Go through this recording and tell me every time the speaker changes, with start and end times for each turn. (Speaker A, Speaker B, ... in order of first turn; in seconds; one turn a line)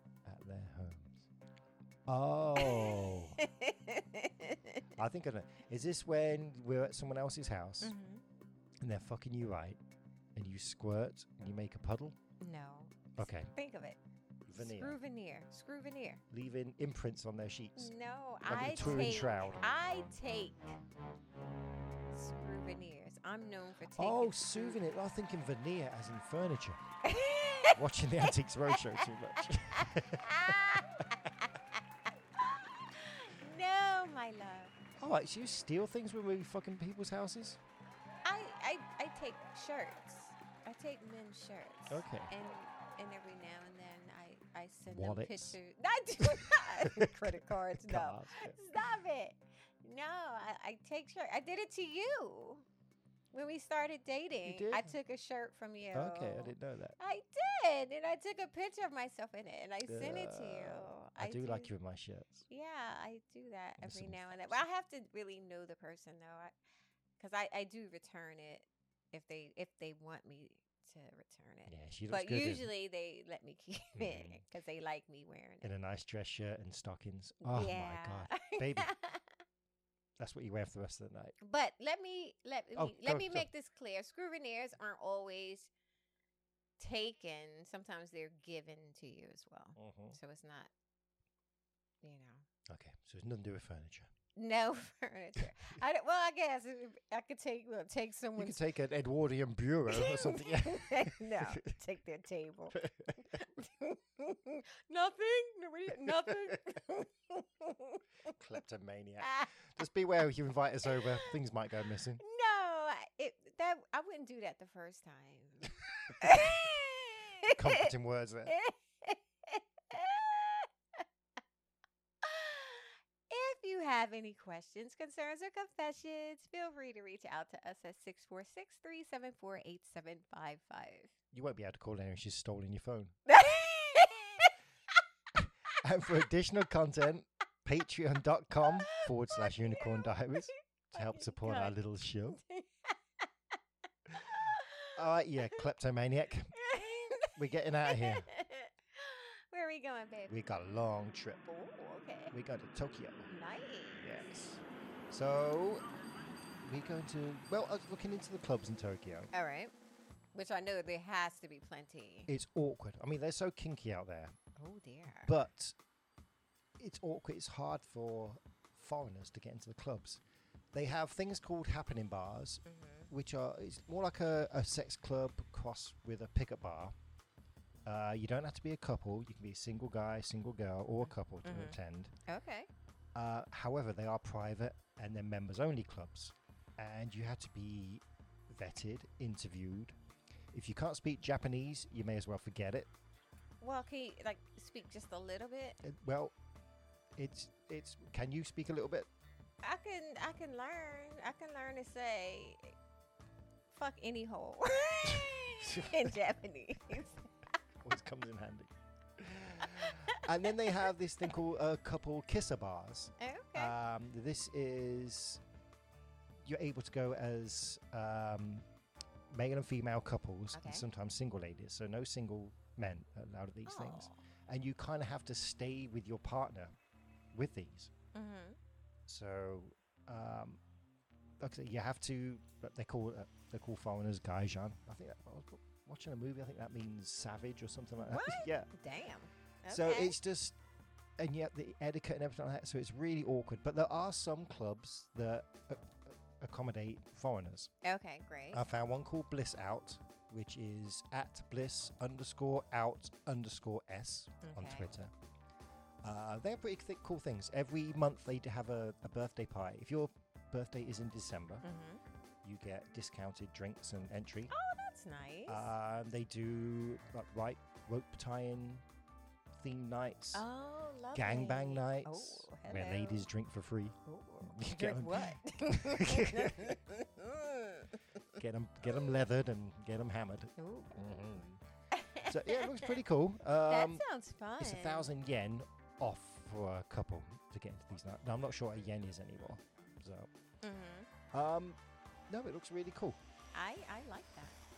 Speaker A: 0.2-1.3
Speaker A: 2.1-3.4
Speaker B: 2.6-4.9
Speaker A: 5.0-8.0
Speaker B: 7.8-8.2
Speaker A: 8.8-9.8
Speaker A: 10.3-12.2
Speaker B: 12.4-14.0
Speaker A: 13.2-13.5
Speaker A: 14.5-15.0
Speaker B: 14.5-16.2
Speaker A: 16.3-17.9
Speaker B: 17.8-20.8
Speaker A: 18.4-19.7
Speaker B: 22.1-24.8
Speaker A: 23.9-26.8
Speaker B: 27.0-31.8
Speaker A: 27.7-30.9
Speaker B: 32.4-34.8
Speaker A: 35.0-37.6
Speaker B: 38.2-52.7
Speaker A: 41.9-42.3
Speaker A: 44.9-45.6
Speaker A: 46.2-48.6
Speaker B: 53.3-61.7
Speaker A: 54.4-55.0
Speaker A: 55.9-57.0
Speaker A: 59.9-62.5
Speaker B: 62.5-66.5
Speaker A: 63.8-64.6
Speaker B: 67.2-75.7
Speaker A: 71.7-72.7
Speaker A: 74.0-74.4
Speaker A: 75.6-78.9
Speaker B: 77.4-79.3
Speaker A: 80.2-81.4
Speaker B: 81.4-85.7
Speaker A: 82.8-83.5
Speaker B: 86.8-90.7
Speaker A: 89.8-90.2
Speaker B: 92.0-92.5
Speaker A: 92.7-94.1
Speaker B: 94.3-98.6
Speaker A: 98.4-101.8
Speaker B: 99.9-108.0
Speaker A: 102.7-103.5
Speaker A: 106.0-106.8
Speaker A: 108.2-112.2
Speaker B: 109.2-109.5
Speaker B: 112.2-117.9
Speaker A: 116.2-116.5
Speaker A: 117.4-118.6
Speaker B: 118.5-121.0
Speaker B: 122.2-131.1
Speaker A: 131.3-133.2
Speaker B: 133.3-134.5
Speaker A: 135.3-142.4
Speaker B: 138.8-141.8
Speaker B: 142.3-143.3
Speaker B: 144.3-145.0
Speaker A: 144.9-146.6
Speaker B: 146.6-150.4
Speaker A: 147.3-148.3
Speaker A: 150.3-151.4
Speaker B: 151.4-152.4
Speaker A: 152.3-153.3
Speaker B: 153.3-154.3
Speaker A: 154.0-155.8
Speaker A: 156.6-159.3
Speaker B: 159.3-159.7
Speaker B: 160.3-162.3
Speaker A: 162.3-164.4
Speaker B: 164.6-165.3
Speaker A: 165.2-165.8
Speaker A: 166.8-170.2
Speaker A: 170.7-176.9
Speaker B: 172.7-173.1
Speaker A: 177.8-182.1
Speaker B: 181.4-182.7
Speaker A: 183.2-190.0
Speaker A: 190.5-192.9
Speaker B: 193.6-195.8
Speaker A: 195.8-196.3
Speaker A: 197.2-199.1
Speaker B: 199.6-202.8
Speaker B: 203.7-207.2
Speaker A: 205.1-206.2
Speaker A: 207.8-215.4
Speaker B: 209.3-210.8
Speaker B: 213.2-213.8
Speaker A: 216.4-218.7
Speaker A: 219.3-226.8
Speaker B: 220.5-220.8
Speaker B: 223.7-224.2
Speaker A: 227.3-227.9
Speaker B: 228.1-228.6
Speaker A: 229.1-230.6
Speaker A: 231.4-238.7
Speaker B: 238.0-240.2
Speaker A: 239.7-240.6
Speaker A: 241.2-247.7
Speaker B: 247.8-248.6
Speaker A: 248.5-255.1
Speaker B: 254.4-254.9
Speaker A: 256.0-261.6
Speaker B: 261.6-262.0
Speaker A: 262.4-264.5
Speaker B: 264.5-265.7
Speaker A: 265.5-268.8
Speaker A: 269.5-270.5
Speaker B: 270.3-273.3
Speaker A: 271.1-276.8
Speaker B: 274.1-278.2
Speaker A: 278.3-281.6
Speaker B: 280.6-281.2
Speaker B: 281.9-283.0
Speaker A: 282.2-284.1
Speaker B: 283.7-285.1
Speaker A: 284.6-290.3
Speaker B: 290.6-291.1
Speaker A: 291.3-293.2
Speaker B: 293.5-294.6